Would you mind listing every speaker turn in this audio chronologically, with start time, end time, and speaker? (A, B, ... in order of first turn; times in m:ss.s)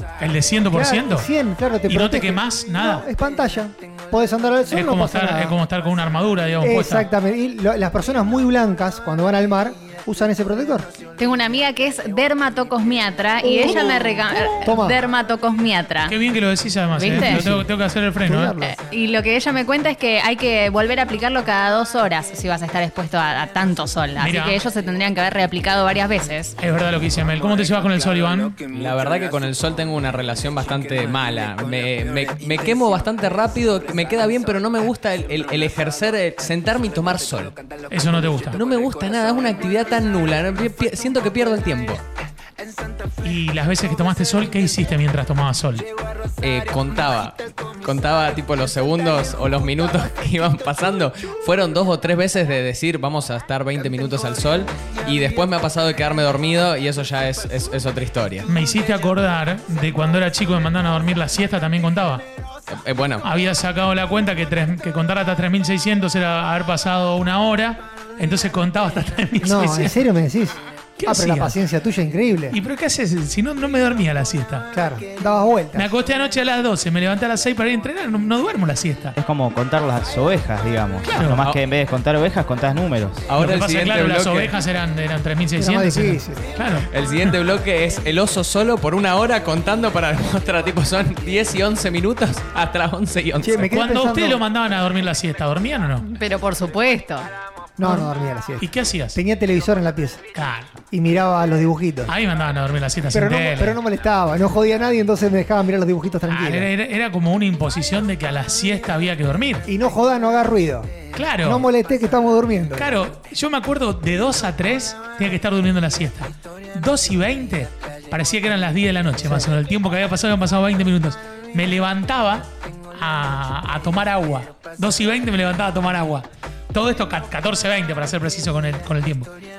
0:00.2-0:01.3 A
0:00.7-0:05.5 B
0:01.9-0:03.0 A
0:04.7-0:07.1 A
0:06.6-0:10.9 B
0:11.2-0:16.2 C
0:13.4-0:14.0 B
0:13.6-0:14.5 A
0:14.6-0:15.0 B
0:16.1-0:18.6 A
0:17.0-0:17.4 C
0:17.1-0:17.7 B
0:18.2-0:18.8 B
0:18.6-0:26.6 C
0:24.2-0:24.6 A
0:26.6-0:28.6 A
0:28.7-0:37.6 D
0:37.9-0:38.6 A
0:38.5-0:42.0 D
0:43.2-0:45.9 A
0:46.4-0:58.5 D
0:58.4-1:02.2 A
1:02.7-1:03.2 D
1:03.2-1:09.9 A
1:09.4-1:12.6 B
1:11.0-1:11.6 A
1:12.5-1:14.7 A
1:14.7-1:15.9 B
1:15.7-1:19.2 A
1:19.2-1:23.3 E
1:21.0-1:21.4 A
1:23.3-1:24.5 D
1:23.4-1:27.3 A
1:25.6-1:26.5 B
1:26.9-1:33.6 D
1:33.4-1:34.4 B
1:33.6-1:36.1 A
1:36.0-1:37.3 C
1:37.8-1:40.2 B
1:38.6-1:39.2 A
1:40.3-1:40.8 A
1:40.9-1:42.1 B
1:42.1-1:43.8 A
1:43.1-1:46.7 B
1:46.3-1:49.6 A
1:49.7-1:50.9 B
1:51.1-1:51.6 A
1:51.4-1:52.9 B
1:52.8-2:09.3 A
1:59.2-1:59.5 B